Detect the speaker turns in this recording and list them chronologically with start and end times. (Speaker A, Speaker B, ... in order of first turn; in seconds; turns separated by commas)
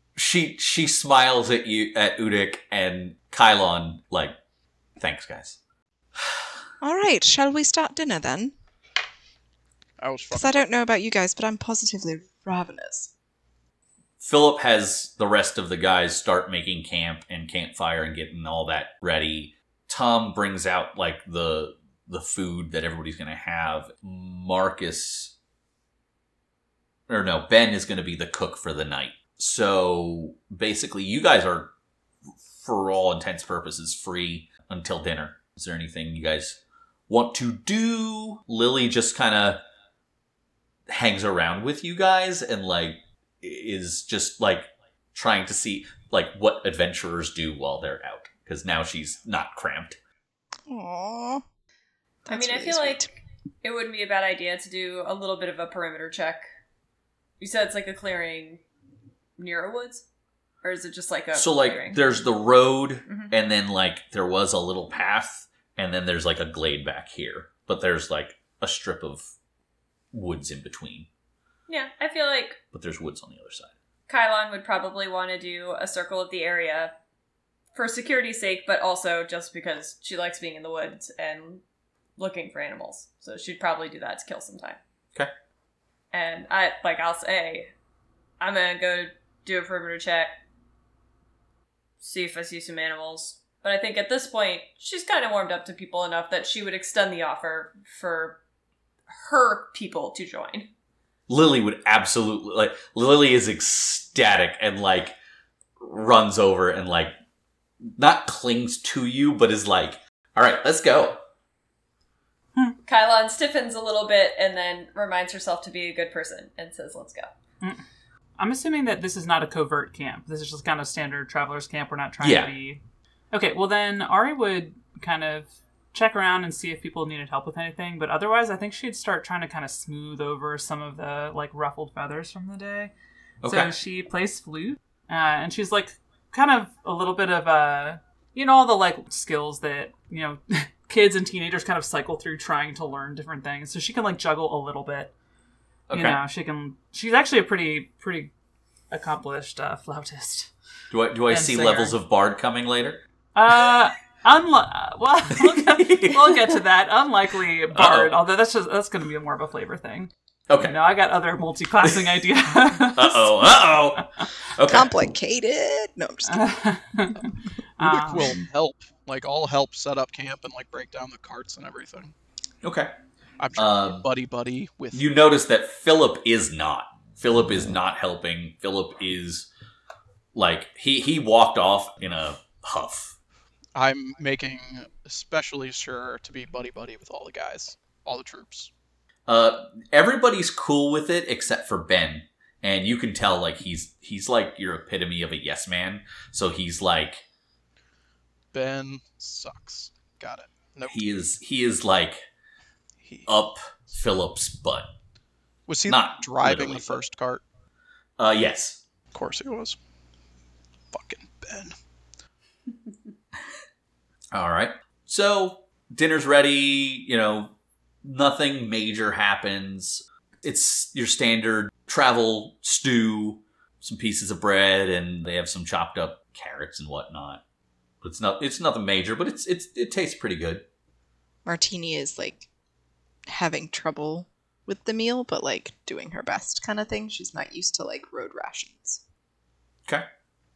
Speaker A: 0.2-4.3, Speaker A: 5.0-5.6, Speaker B: 6.8-8.5, Speaker C: 10.0-10.6, Speaker B: 10.3-13.1, Speaker A: 14.2-25.3, Speaker A: 27.1-31.7, Speaker A: 32.6-39.6, Speaker A: 40.9-50.0, Speaker B: 50.7-51.4, Speaker B: 52.3-53.1, Speaker D: 52.3-53.1, Speaker D: 53.6-56.4, Speaker D: 57.4-58.6, Speaker D: 59.4-60.0, Speaker D: 60.6-62.0, Speaker A: 61.3-69.3, Speaker D: 63.1-63.3, Speaker A: 70.1-71.1, Speaker D: 71.7-72.6, Speaker A: 72.7-73.7, Speaker D: 74.1-76.9, Speaker D: 77.7-81.6, Speaker D: 82.2-84.8, Speaker D: 86.1-87.7, Speaker D: 88.4-90.3, Speaker D: 92.0-98.4, Speaker D: 99.1-100.7, Speaker A: 101.3-105.2, Speaker A: 105.8-107.1, Speaker A: 107.8-111.2, Speaker D: 112.9-117.3, Speaker E: 118.4-132.9, Speaker A: 122.2-122.5, Speaker A: 133.4-133.7, Speaker E: 133.4-145.1, Speaker A: 145.9-146.2, Speaker E: 145.9-148.3, Speaker E: 148.9-150.5, Speaker A: 150.9-153.0, Speaker E: 151.3-152.0, Speaker E: 153.3-163.4, Speaker A: 155.4-156.4, Speaker A: 157.7-158.2, Speaker A: 160.5-160.8, Speaker A: 162.9-164.9, Speaker B: 164.7-166.5, Speaker E: 166.3-168.4, Speaker C: 167.8-172.1, Speaker A: 172.6-172.9, Speaker C: 173.4-175.0, Speaker A: 173.6-174.1, Speaker A: 174.9-179.5, Speaker A: 180.3-183.2, Speaker C: 183.8-188.7, Speaker A: 189.3-197.2, Speaker C: 198.5-201.0, Speaker A: 200.9-202.2, Speaker A: 203.3-204.9, Speaker C: 205.7-207.4, Speaker A: 205.9-207.0, Speaker A: 208.2-208.8, Speaker C: 209.1-209.8, Speaker C: 210.9-211.8, Speaker A: 214.3-227.4, Speaker A: 228.0-230.7, Speaker B: 231.4-232.5, Speaker B: 233.3-239.0